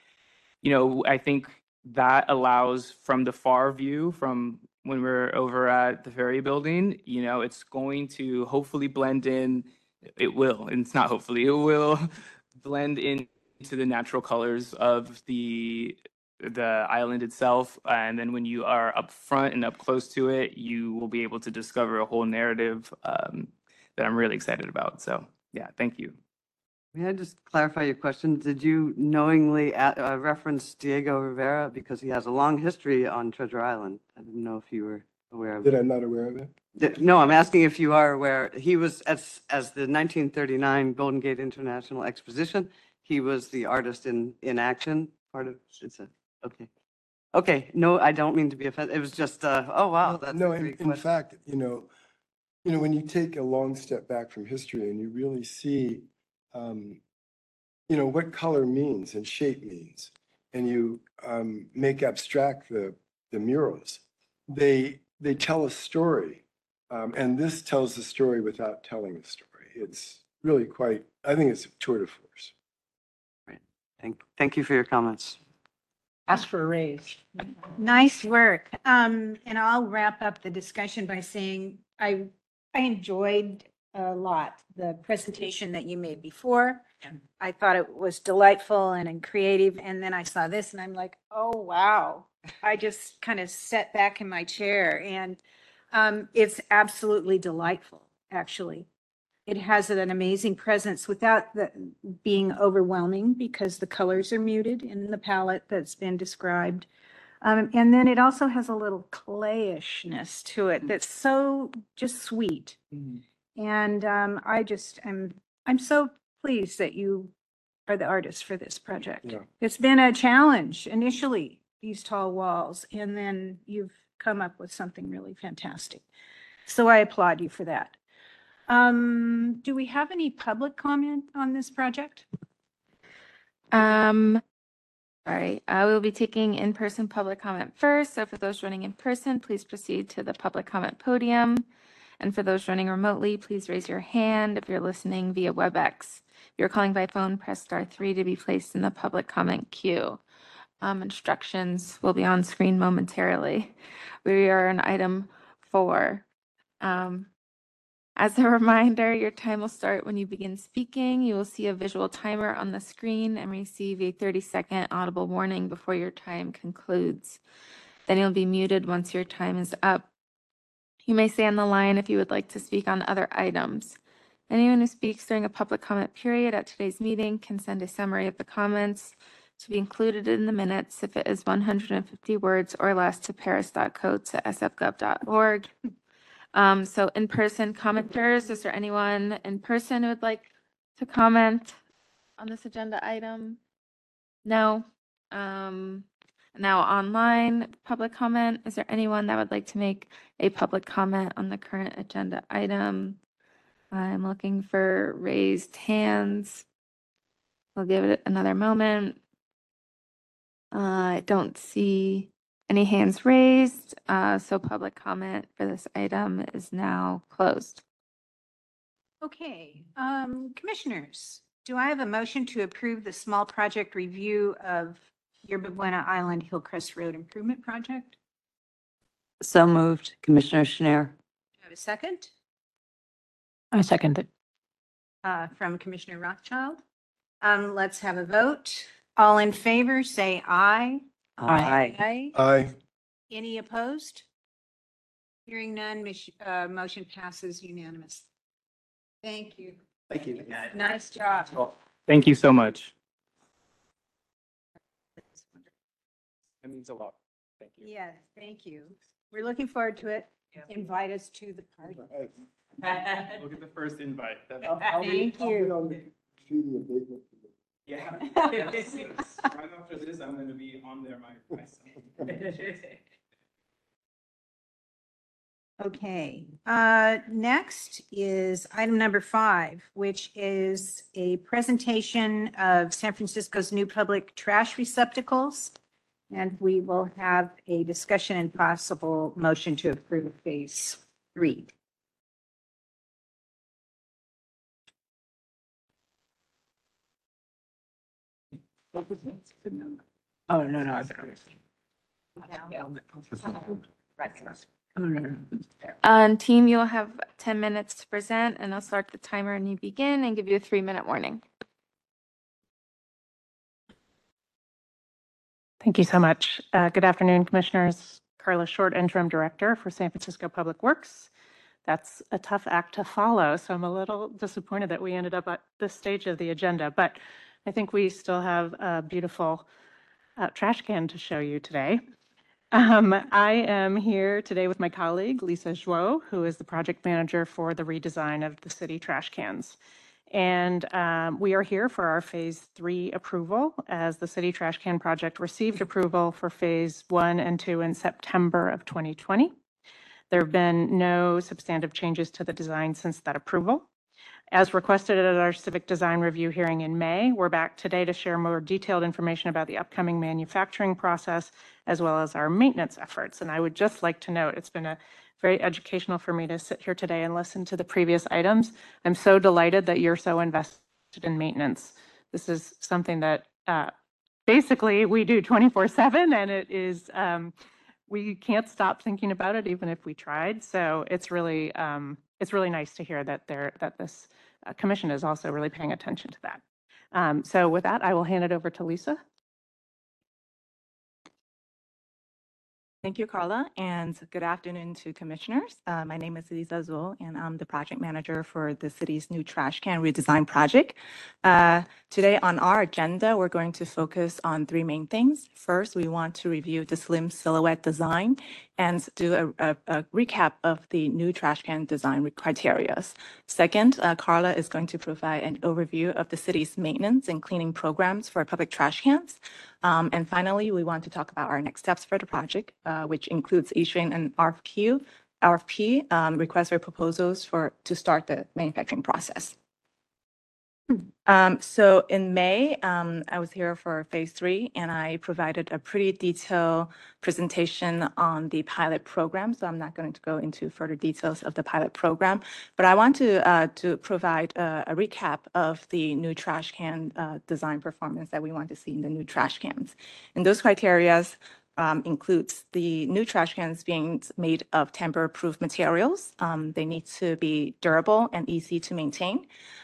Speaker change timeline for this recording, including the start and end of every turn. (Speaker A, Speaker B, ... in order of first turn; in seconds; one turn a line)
Speaker A: 0.6-26.2
Speaker B: 26.9-35.7
Speaker C: 35.6-36.5
Speaker B: 36.7-46.7
Speaker B: 47.3-51.0
Speaker C: 50.0-51.9
Speaker C: 52.6-57.0
Speaker C: 57.9-72.5
Speaker B: 73.5-75.4
Speaker D: 76.3-77.2
Speaker E: 77.8-86.9
Speaker E: 87.4-95.4
Speaker E: 95.9-98.9
Speaker E: 99.5-106.9
Speaker E: 107.4-112.8
Speaker E: 113.6-117.3
Speaker E: 117.9-126.0
Speaker E: 126.7-128.0
Speaker E: 128.7-132.2
Speaker F: 133.7-134.4
Speaker F: 135.2-141.7
Speaker F: 142.2-150.2
Speaker F: 150.8-153.7
Speaker F: 154.2-156.2
Speaker F: 156.8-157.3
Speaker F: 158.2-167.4
Speaker F: 168.1-170.1
Speaker F: 171.0-174.0
Speaker F: 174.5-185.7
Speaker F: 186.5-191.8
Speaker F: 192.4-193.6
Speaker F: 194.4-203.2
Speaker F: 203.9-206.6
Speaker F: 207.8-209.2
Speaker F: 210.7-217.8
Speaker E: 219.2-228.1
Speaker G: 229.4-231.1
Speaker E: 231.6-232.3
Speaker E: 235.2-236.8
Speaker E: 237.4-242.3
Speaker G: 241.4-242.0
Speaker C: 242.3-242.7
Speaker E: 243.3-244.2
Speaker E: 245.5-248.2
Speaker E: 249.2-251.6
Speaker A: 252.1-252.9
Speaker E: 255.3-255.6
Speaker A: 256.6-257.9
Speaker E: 257.8-262.1
Speaker A: 262.8-265.3
Speaker C: 264.6-267.5
Speaker E: 265.1-265.7
Speaker A: 267.9-272.9
Speaker E: 275.8-285.7
Speaker E: 286.3-291.7
Speaker D: 298.9-300.0
Speaker D: 300.5-301.5
Speaker D: 302.5-305.9
Speaker F: 306.0-311.4
Speaker H: 315.8-321.3
Speaker H: 321.8-329.6
Speaker H: 330.4-332.0
Speaker H: 332.7-339.8
Speaker H: 340.3-349.5
Speaker H: 350.3-353.9
Speaker H: 354.5-373.9
Speaker H: 374.5-377.5
Speaker H: 378.1-386.6
Speaker H: 387.1-389.2
Speaker I: 393.0-429.5
Speaker I: 431.2-459.5